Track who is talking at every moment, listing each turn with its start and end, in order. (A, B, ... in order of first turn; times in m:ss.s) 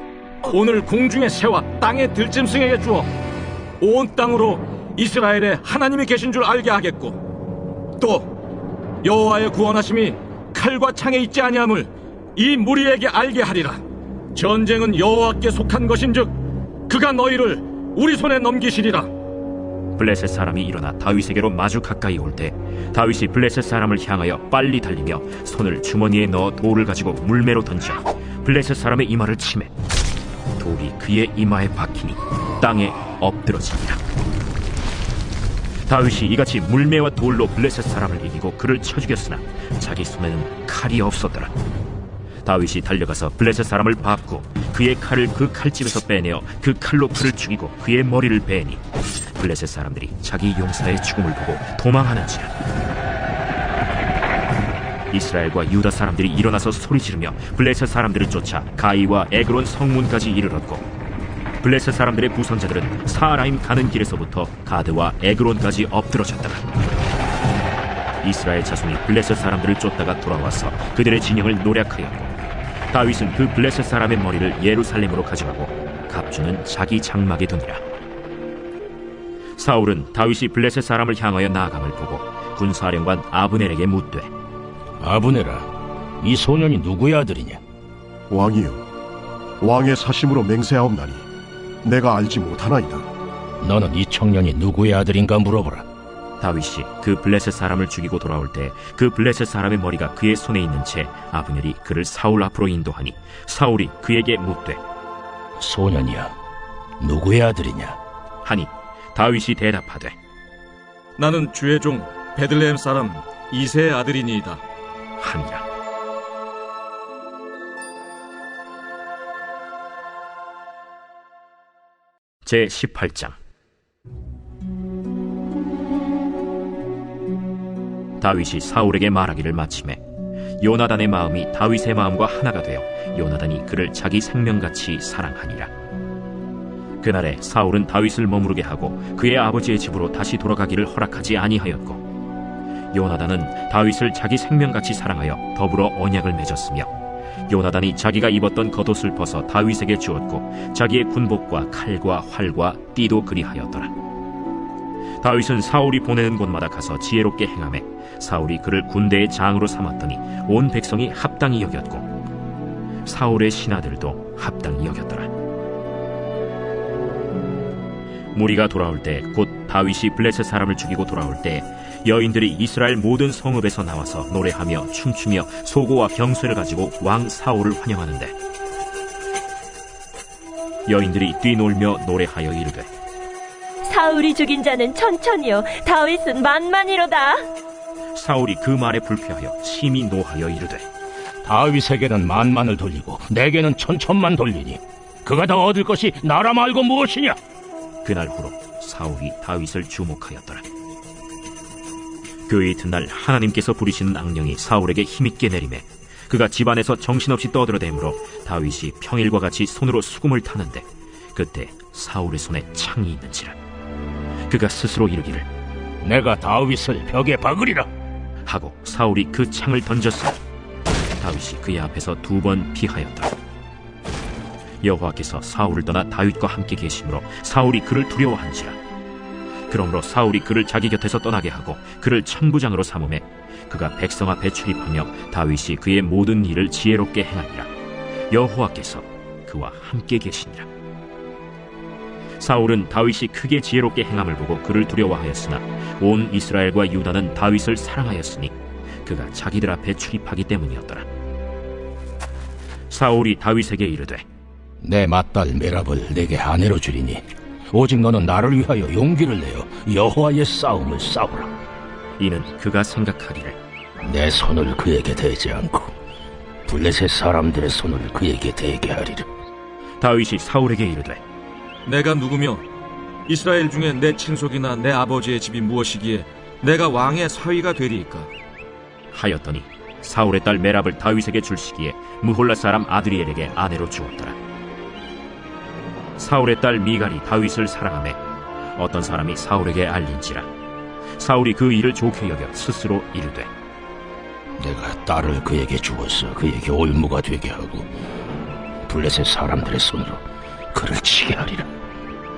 0:00.4-0:03.1 A
0:03.8-0:07.2 A
0:08.0-0:08.4 A
0:09.0-0:13.8 A
0:14.3-0:16.4 A
0:16.9-0:19.1 A
0:20.0-0:29.7 B
0:30.6-0:34.0 B
0:35.9-0:41.5 B
0:42.4-0:48.8 B
0:49.3-0:52.5 B
0:55.1-1:00.8 B
1:01.6-1:06.6 B
1:08.2-1:12.3 B
1:12.9-1:17.8 B
1:19.6-1:24.3 B
1:25.0-1:27.6 C
1:28.3-1:28.8 D
1:29.6-1:31.3 D
1:31.8-1:33.0 D
1:33.6-1:35.8 C
1:36.4-1:44.8 B
1:45.6-1:46.3 C
1:47.0-1:48.0 C
1:48.4-1:50.2 B
1:51.2-1:54.6 A
1:55.2-1:55.6 B
2:02.4-2:03.4 B
2:08.2-2:10.0 B
2:10.6-2:15.7 B
2:17.0-2:22.0 B
2:22.9-2:26.9 B
2:27.5-2:33.9 B
2:35.2-2:42.1 B
2:43.0-2:45.3 B
2:48.3-2:58.4 B
3:00.9-3:02.9 B
3:03.8-3:07.4 E
3:08.1-3:10.8 B
3:11.4-3:17.4 C
3:18.0-3:20.6 B
3:22.5-3:33.6 B
3:34.5-3:35.5 B
3:36.0-3:37.9 C
3:38.4-3:40.4 B
3:41.2-3:43.3 B
3:44.8-3:48.8 B
3:49.7-3:57.7 B
3:58.3-4:00.7 B
4:02.4-4:11.1 B
4:12.9-4:14.2 B
4:14.8-4:21.5 C
4:22.2-4:23.6 B
4:24.0-4:25.9 C
4:26.6-4:29.2 C
4:30.0-4:31.2 B
4:31.8-4:32.6 A
4:33.3-4:38.3 A
4:39.1-4:44.4 B
4:46.2-4:48.2 B
4:48.8-4:50.5 B
4:51.2-4:53.5 B
4:54.6-4:57.9 C
4:58.8-5:01.7 C